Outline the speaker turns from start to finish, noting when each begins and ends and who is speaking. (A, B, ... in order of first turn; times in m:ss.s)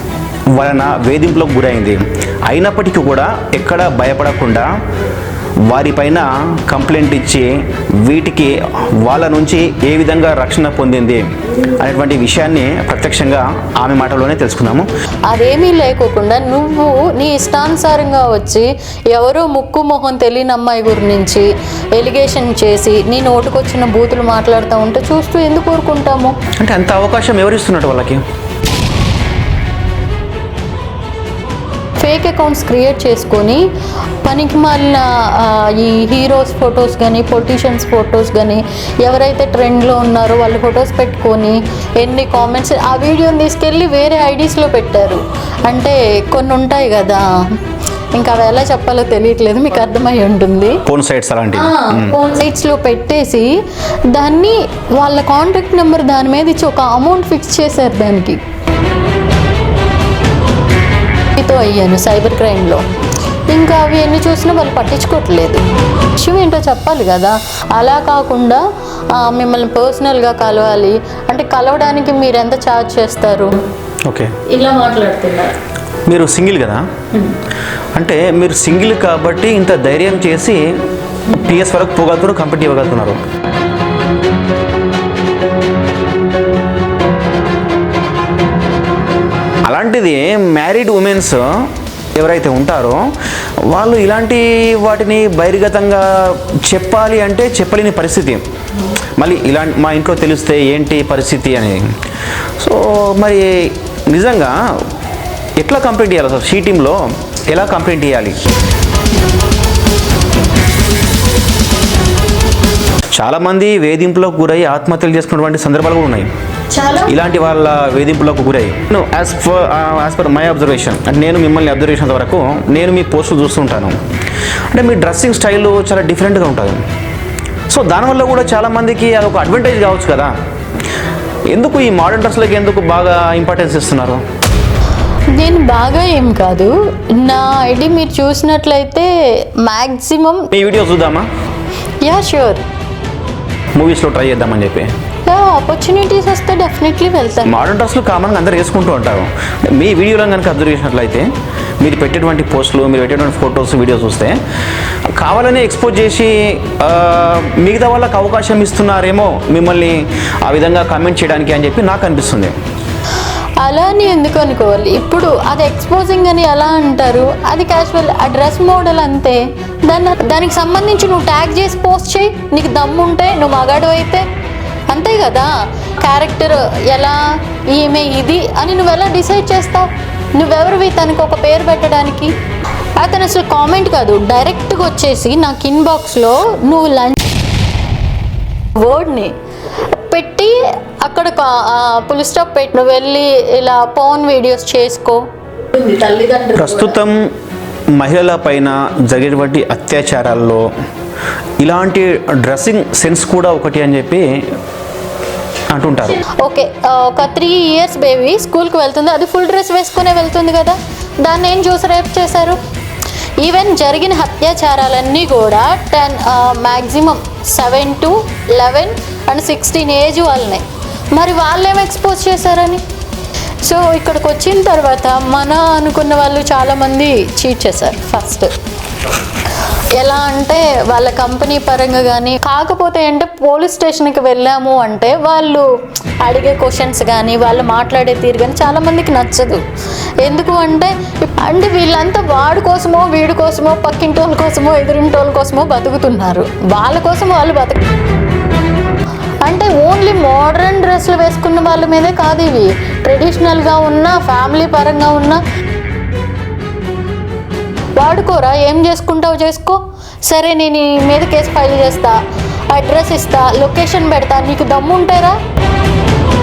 0:00.5-0:04.7 A
0:05.7-0:14.9 A
0:15.3-0:26.4 B
0:26.6-0:28.2 A
0:32.0-0:33.7 B
0:34.2-0:47.6 B
0:48.1-0:50.8 B
0:50.9-0:52.2 A
0:51.6-0:58.4 B
1:01.3-1:02.8 B
1:03.5-1:13.6 B
1:14.1-1:14.4 A
1:14.5-1:15.6 B
1:16.1-1:16.9 A
1:18.0-1:20.7 A
1:21.3-1:23.2 A
1:29.6-1:33.0 A
1:33.7-1:38.4 A
1:39.2-1:41.9 A
1:42.6-1:44.6 A
1:45.6-1:48.4 A
1:53.1-1:56.3 A
1:56.7-1:57.2 B
1:57.1-2:04.0 A
2:04.7-2:06.8 A
2:07.7-2:10.3 A
2:11.5-2:14.2 A
2:15.3-2:20.5 B
2:20.5-2:21.3 A
2:22.0-2:22.6 B
2:23.8-2:24.9 A
2:25.3-2:27.6 B
2:27.4-2:34.4 A
2:35.2-2:42.5 A
2:43.6-2:54.3 B
2:54.9-3:02.3 B
3:03.0-3:07.2 B
3:08.8-3:17.0 B
3:16.6-3:17.2 A
3:18.0-3:20.7 A
3:21.6-3:24.5 A
3:25.7-3:26.2 A
3:26.2-3:32.6 B
3:33.4-3:42.8 B
3:43.6-3:48.5 B
3:49.9-3:55.7 B
3:56.2-3:59.6 B
4:00.2-4:07.9 B
4:09.4-4:15.4 B
4:18.0-4:25.4 B